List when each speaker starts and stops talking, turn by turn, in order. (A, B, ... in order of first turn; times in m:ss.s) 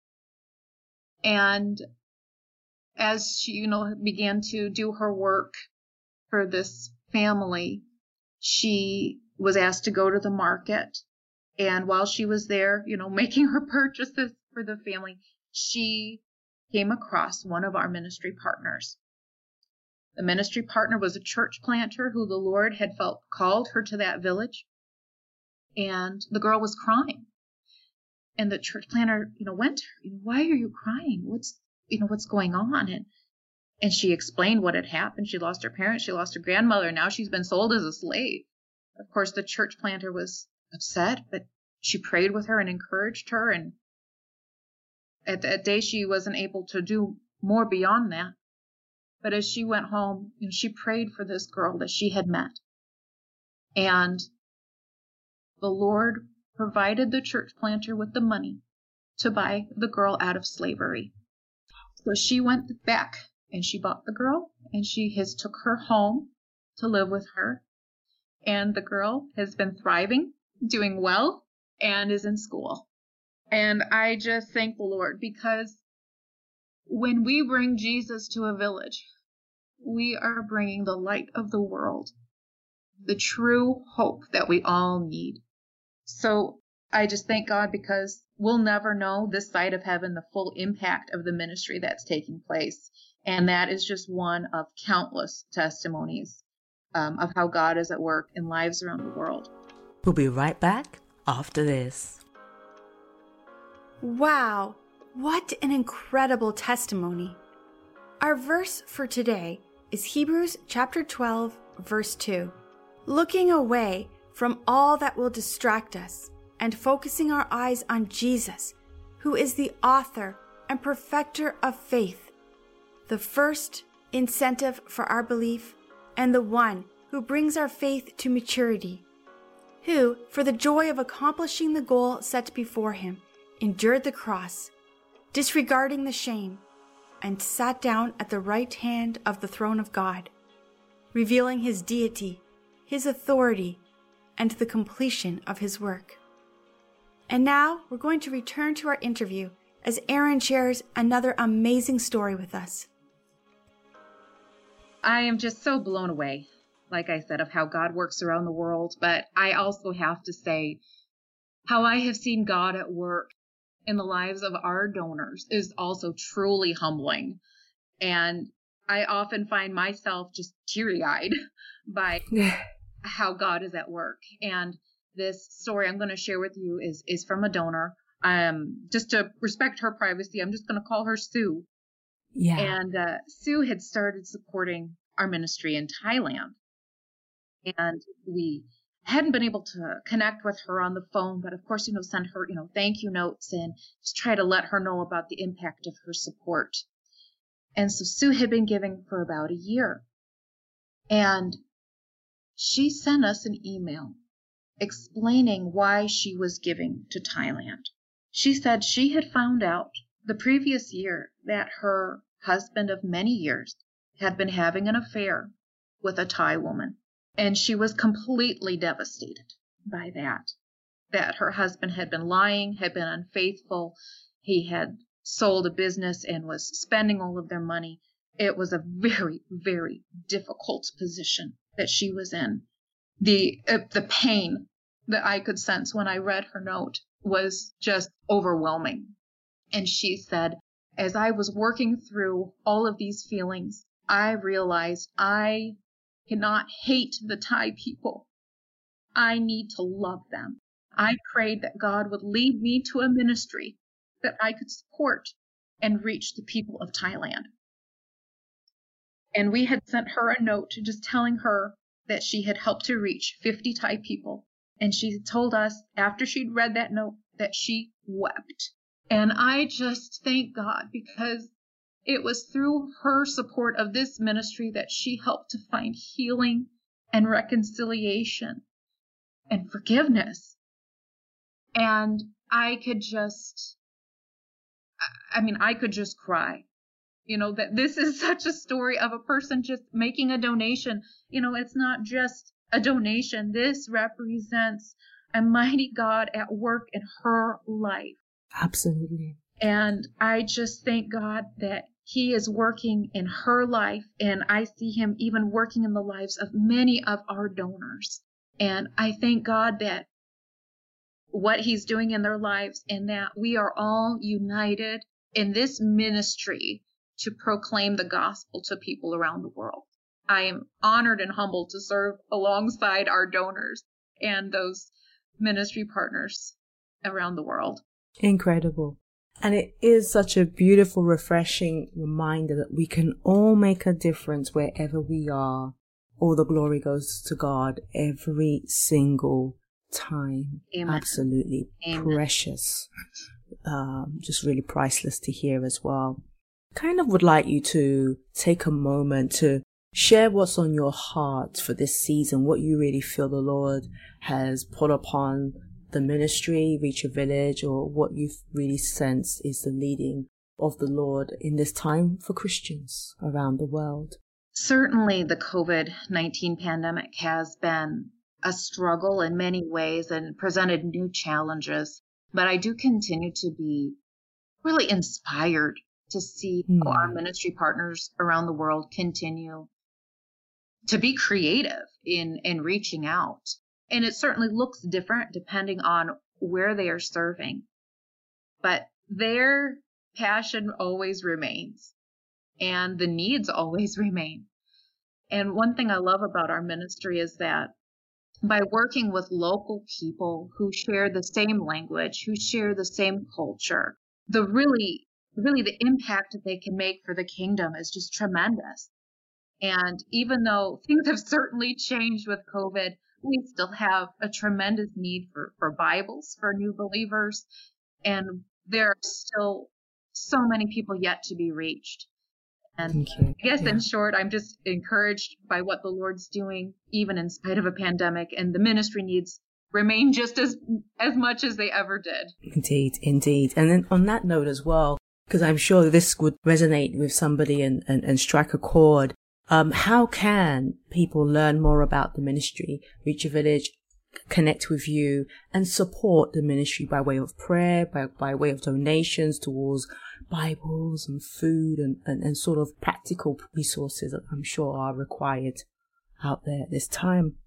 0:01.2-0:01.8 A
0:03.0-0:05.5 A
0:06.3-0:07.8 A
0:08.4-0:11.0 A
0:11.6-0:19.0 A
0:20.2-0:24.7 A
0:25.8-0:27.3 A
0:28.4-0:33.1 A
0:33.8-0:38.5 A
0:39.0-0:43.8 A
0:45.3-0:48.4 A
0:49.2-0:52.6 A
0:53.8-0:54.3 A
0:55.6-0:58.6 A
0:59.2-1:01.1 A
1:02.0-1:07.6 A
1:08.5-1:12.9 A
1:13.5-1:15.8 A
1:16.9-1:19.0 A
1:19.8-1:22.1 A
1:23.0-1:25.4 A
1:26.1-1:36.4 A
1:37.0-1:39.5 A
1:40.0-1:42.2 B
1:44.0-1:47.4 C
1:48.2-1:52.5 C
1:53.1-2:02.3 C
2:03.1-2:09.1 C
2:09.8-2:14.7 C
2:15.3-2:16.6 C
2:17.2-2:20.3 C
2:21.1-2:23.8 C
2:24.4-2:26.2 C
2:27.3-2:32.9 C
2:35.0-2:40.8 A
2:41.7-2:43.3 A
2:43.9-2:47.4 A
2:48.0-2:51.3 A
2:51.9-2:52.2 A
2:52.3-2:52.6 B
2:53.0-3:01.7 A
3:02.4-3:02.8 B
3:02.6-3:06.6 A
3:07.6-3:16.8 A
3:17.8-3:20.0 A
3:21.1-3:21.6 A
3:22.6-3:24.2 A
3:24.8-3:35.5 A
3:36.0-3:40.5 A
3:41.1-3:52.6 A
3:53.2-3:59.1 A
3:59.7-4:05.8 A
4:06.3-4:08.3 A
4:09.2-4:17.5 A
4:19.4-4:31.5 A
4:32.1-4:38.6 A
4:39.5-4:40.6 A
4:41.8-4:43.8 A
4:45.3-4:46.7 A
4:47.3-4:58.2 A
4:58.6-4:59.4 B
4:59.6-5:10.1 A
5:11.3-5:27.8 A
5:28.2-5:42.9 B
5:40.7-5:41.2 A
5:41.8-5:42.2 A
5:43.6-5:46.2 B
5:46.8-6:04.2 B
6:04.5-6:14.0 A
6:14.6-6:19.7 A
6:16.7-6:17.2 B
6:20.9-6:27.7 A
6:28.6-6:31.9 A
6:32.6-6:34.5 A
6:35.3-6:37.7 A
6:38.5-6:48.9 A
6:49.6-6:57.5 A
6:58.0-7:02.1 A
7:02.8-7:12.3 A
7:02.9-7:03.8 B
7:12.5-7:23.8 B
7:24.3-7:35.6 B
7:36.2-7:37.4 B